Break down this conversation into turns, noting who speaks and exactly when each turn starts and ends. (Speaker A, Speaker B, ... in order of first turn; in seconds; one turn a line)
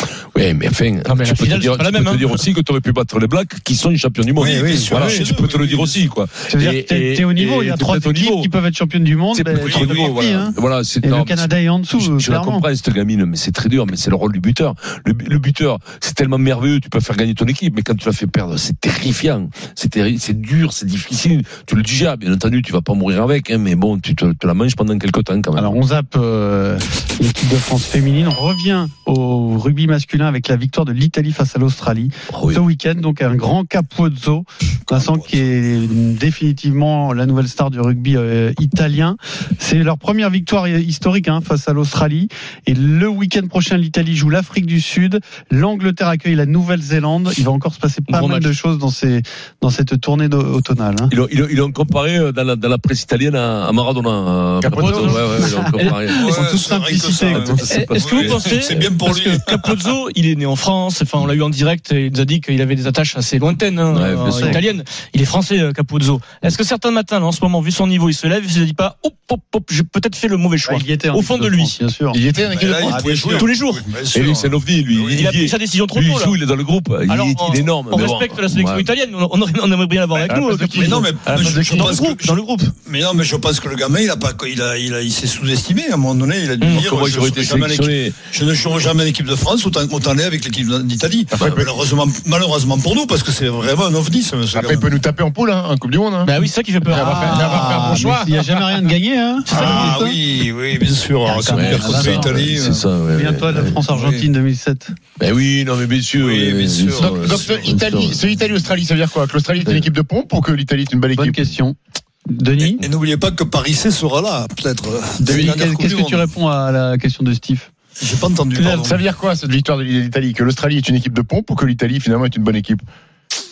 Speaker A: 0.3-8.5
Speaker B: 1.0-2.4
Speaker C: 4.3-6.1
Speaker D: 4.5-5.0
Speaker D: 6.5-12.7
Speaker A: 9.3-25.7
Speaker C: 9.5-10.2
Speaker D: 25.6-51.1
Speaker A: 32.3-32.6
Speaker C: 34.9-35.5
Speaker B: 48.1-48.5
Speaker A: 51.1-56.5
Speaker E: 54.6-55.2
Speaker B: 54.7-56.0
Speaker D: 54.9-57.7
Speaker C: 56.1-59.9
Speaker A: 57.3-59.0
Speaker B: 57.7-71.8
Speaker A: 63.9-64.6
Speaker D: 64.3-64.6
Speaker D: 70.6-72.2
Speaker E: 72.1-73.4
Speaker C: 72.5-75.3
Speaker D: 72.9-73.2
Speaker B: 73.3-73.8
Speaker A: 74.1-78.9
Speaker B: 75.2-76.4
Speaker B: 77.1-82.7
Speaker E: 80.3-81.7
Speaker C: 80.8-95.0
Speaker A: 86.7-88.2
Speaker E: 91.3-91.8
Speaker E: 94.5-98.8
Speaker B: 96.2-97.9
Speaker D: 96.9-100.2
Speaker C: 99.5-102.9
Speaker D: 101.3-102.1
Speaker A: 101.4-103.8
Speaker D: 103.1-104.9
Speaker C: 103.9-104.2
Speaker A: 105.2-108.4
Speaker C: 106.2-107.7
Speaker E: 107.0-111.5
Speaker A: 109.6-109.9
Speaker D: 111.1-111.8
Speaker D: 112.3-112.8
Speaker C: 112.8-116.3
Speaker D: 115.2-117.7
Speaker C: 118.0-119.0
Speaker E: 118.5-122.8